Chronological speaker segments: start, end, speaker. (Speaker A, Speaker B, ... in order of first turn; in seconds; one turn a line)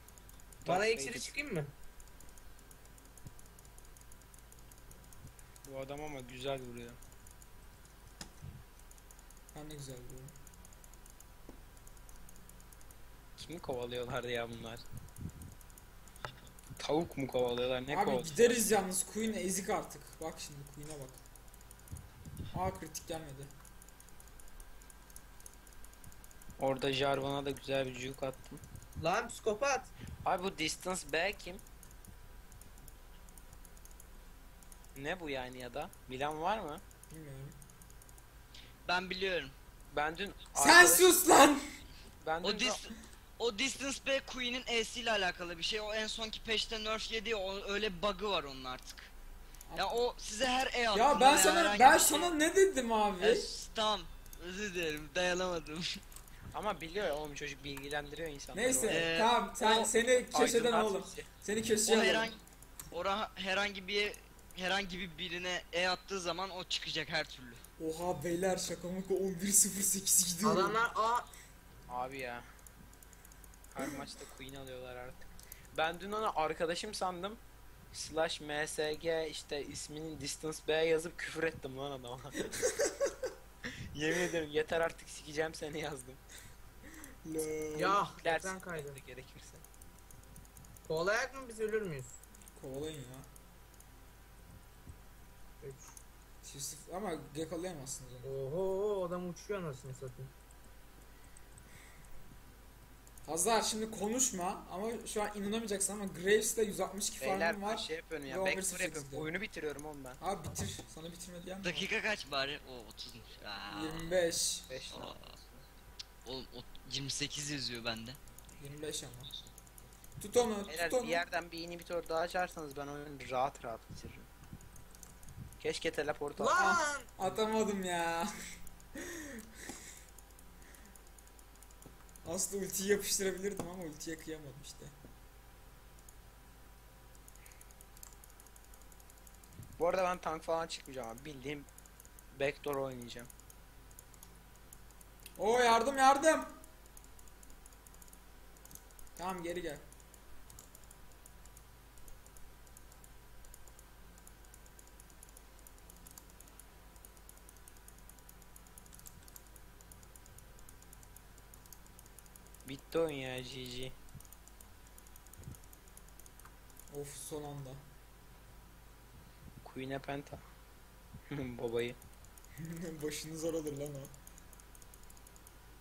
Speaker A: 0.6-1.3
Speaker B: 0.7-1.7
Speaker A: 5.7-7.0
Speaker C: 9.5-10.3
Speaker A: 13.4-14.8
Speaker A: 16.8-18.6
Speaker C: 17.9-21.2
Speaker C: 22.5-23.5
Speaker A: 26.6-28.6
Speaker B: 29.0-29.9
Speaker A: 30.2-31.6
Speaker A: 35.0-36.8
Speaker C: 37.1-37.6
Speaker D: 38.9-39.5
Speaker A: 39.9-41.2
Speaker C: 40.5-41.6
Speaker A: 42.2-42.9
Speaker D: 42.4-49.1
Speaker C: 49.7-50.0
Speaker D: 49.8-52.3
Speaker C: 50.9-53.5
Speaker D: 53.2-56.0
Speaker A: 56.5-59.1
Speaker C: 58.5-62.4
Speaker D: 58.9-59.9
Speaker A: 60.3-61.3
Speaker D: 61.9-62.4
Speaker D: 62.9-67.6
Speaker C: 67.8-70.8
Speaker B: 70.4-71.3
Speaker A: 71.9-72.5
Speaker A: 73.7-77.4
Speaker A: 77.9-82.5
Speaker C: 82.6-83.1
Speaker A: 83.9-86.2
Speaker C: 87.2-88.0
Speaker B: 87.8-89.0
Speaker A: 87.8-89.6
Speaker B: 90.8-92.2
Speaker C: 92.5-93.3
Speaker B: 95.6-96.0
Speaker C: 96.4-98.3
Speaker B: 98.2-100.3
Speaker C: 103.3-109.3
Speaker A: 107.2-110.2
Speaker C: 110.2-111.9
Speaker D: 111.6-114.1
Speaker C: 113.7-114.7
Speaker A: 114.7-115.6
Speaker D: 114.9-115.2
Speaker D: 116.2-118.2
Speaker C: 118.6-119.3
Speaker C: 120.2-121.2
Speaker A: 120.7-124.3
Speaker A: 125.6-126.6
Speaker B: 126.4-127.1
Speaker C: 126.6-128.3
Speaker C: 129.0-129.4
Speaker C: 132.2-134.9
Speaker A: 139.8-141.7
Speaker A: 142.3-143.3
Speaker C: 145.4-146.6
Speaker C: 149.2-149.8
Speaker A: 162.7-163.9
Speaker C: 166.9-167.8
Speaker A: 169.6-170.4
Speaker A: 171.3-172.0
Speaker C: 172.6-174.1